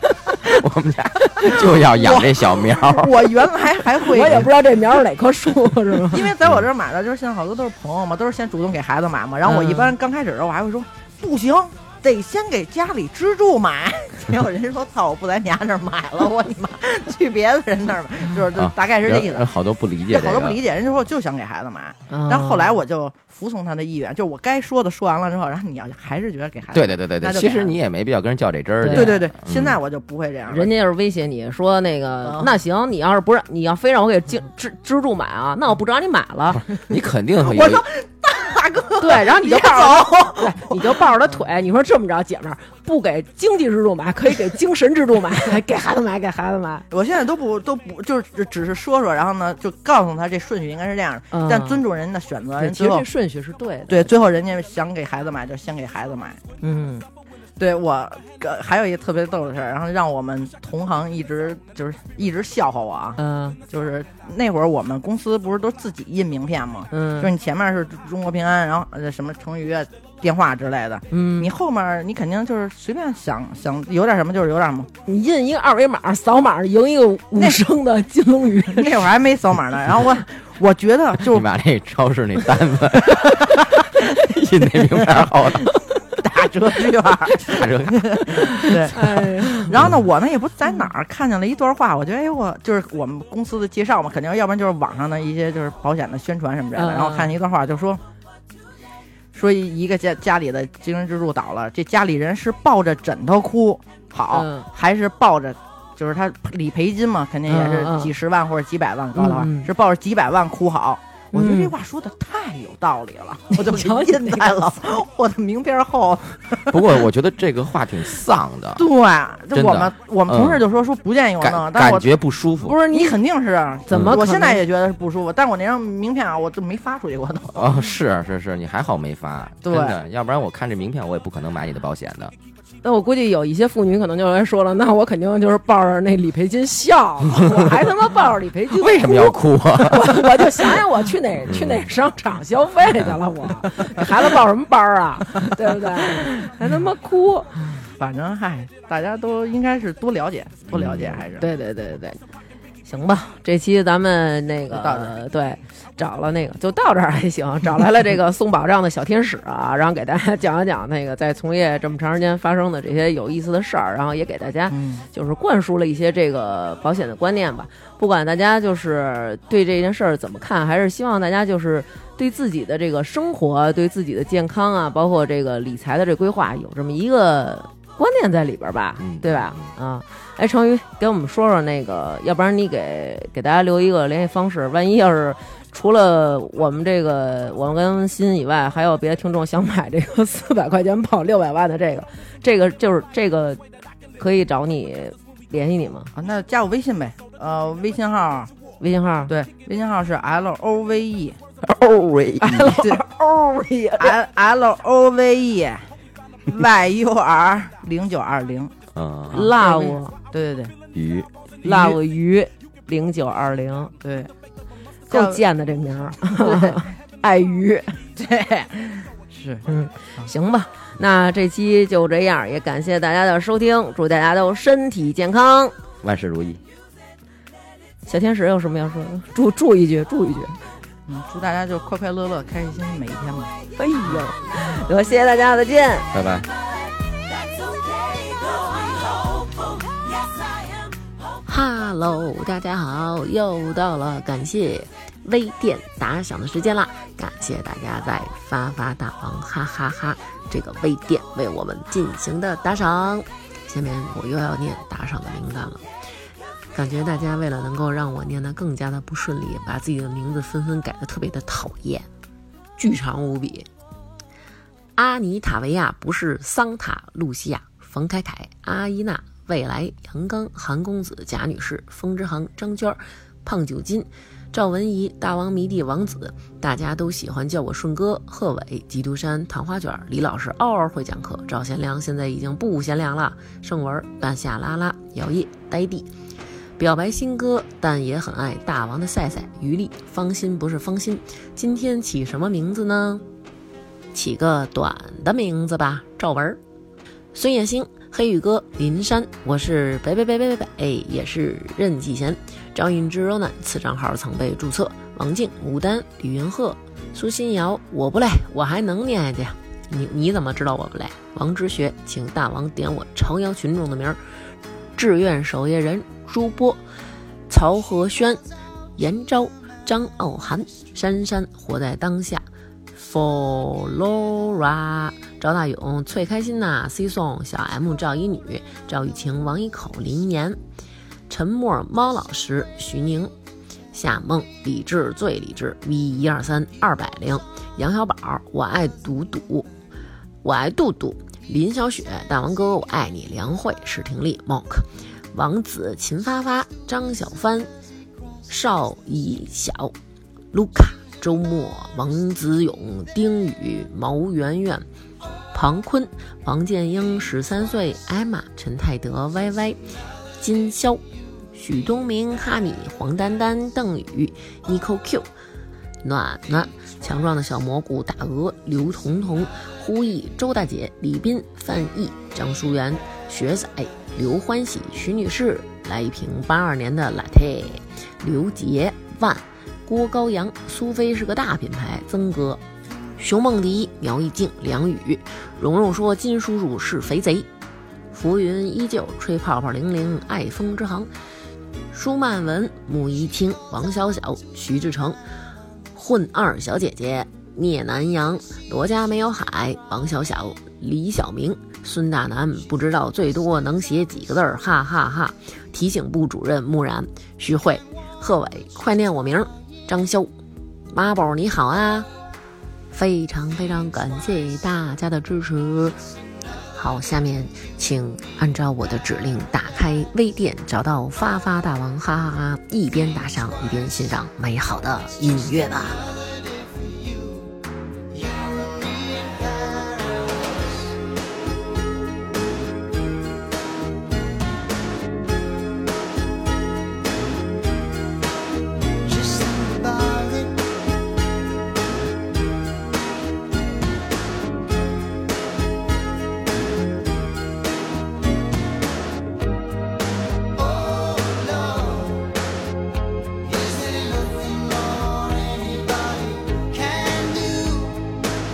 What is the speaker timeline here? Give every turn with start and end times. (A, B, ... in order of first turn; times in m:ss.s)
0:00.5-0:03.3 A
0:01.4-0:04.5 B
0:04.0-0:06.3 C
0:06.1-0:19.4 B
0:09.4-0:09.9 C
0:18.5-0:20.6 A
0:20.1-0:27.7 B
0:22.1-0:22.8 C
0:26.7-0:29.8 A
0:28.8-0:29.1 C
0:28.9-0:30.7 B
0:30.5-0:36.6 C
0:32.2-0:32.5 B
0:36.7-0:37.9 A
0:37.4-0:41.4 B
0:39.0-0:46.8 C
0:46.9-0:53.0 B
0:51.3-0:51.8 C
0:52.6-0:54.1 C
0:53.9-0:56.4 B
0:56.6-0:57.0 C
0:57.6-1:03.2 B
1:03.2-1:03.6 C
1:03.7-1:14.9 B
1:06.9-1:07.3 C
1:11.1-1:11.5 C
1:15.1-1:19.0 C
1:17.4-1:17.6 B
1:18.6-1:21.5 B
1:21.2-1:25.7 A
1:23.1-1:23.9 B
1:24.8-1:38.0 B
1:27.4-1:28.4 A
1:28.4-1:29.8 C
1:36.8-1:37.3 C
1:39.3-1:57.0 B
1:44.3-1:44.7 C
1:47.5-1:48.1 C
1:49.2-1:49.7 C
1:51.3-1:51.7 C
1:53.5-1:54.6 C
1:56.7-1:58.8 A
1:58.8-2:02.1 B
1:59.5-2:00.6 A
2:01.4-2:02.8 A
2:02.6-2:03.1 C
2:02.9-2:07.8 B
2:03.9-2:04.6 C
2:03.9-2:04.2 A
2:07.5-2:12.3 A
2:09.6-2:10.0 B
2:12.8-2:27.5 C
2:18.7-2:20.7 A
2:21.4-2:21.9 A
2:22.8-2:23.9 A
2:27.8-2:31.5 B
2:30.7-2:31.2 A
2:31.4-2:32.2 C
2:32.8-3:13.6 C
2:34.7-2:35.1 B
2:44.7-2:45.0 B
2:59.0-2:59.7 A
3:14.2-3:16.1 C
3:16.2-3:18.5 B
3:18.8-3:19.3 C
3:19.3-3:21.4 B
3:21.6-3:22.8 A
3:22.4-3:24.2 C
3:22.8-3:23.0 B
3:24.0-3:25.9 B
3:26.5-3:28.7 B
3:28.9-3:29.4 A
3:29.3-3:30.7 B
3:29.3-3:30.1 C
3:30.9-3:31.3 A
3:31.6-3:32.0 B
3:31.6-3:33.9 C
3:34.0-3:34.3 B
3:35.1-3:35.4 B
3:35.1-3:38.0 C
3:36.2-3:36.8 B
3:38.2-3:39.6 B
3:39.6-3:45.7 C
3:46.0-3:46.6 A
3:48.0-3:50.6 C
3:51.1-3:53.5 B
3:53.8-3:56.1 C
3:56.1-3:56.5 A
3:57.7-3:59.6 D
4:01.4-4:15.8 E
4:16.7-4:22.1 E
4:22.8-4:23.7 E
4:24.9-4:46.1 E
4:46.8-4:53.2 E
4:54.1-4:56.6 E
4:57.3-5:14.2 E
5:15.0-5:16.8 E
5:17.5-5:18.4 E
5:19.0-5:30.6 E
5:31.3-5:33.3 E
5:33.9-5:39.7 E
5:40.4-5:47.7 E
5:48.5-5:49.9 E
5:50.5-5:54.8 E
5:55.5-5:59.8 E
6:00.4-6:01.0 E
6:01.5-6:05.3 E
6:06.0-6:22.6 E
6:23.2-6:27.5 E
6:28.1-6:31.1 E
6:31.9-6:35.2 E
6:35.9-6:50.3 E
6:50.9-6:52.1 E
6:52.9-6:56.0 E
6:56.7-7:06.0 E
7:05.9-7:07.6 D
7:08.1-7:11.0 D
7:19.0-7:20.6 D
7:30.5-7:32.4 D
7:33.4-7:38.2 D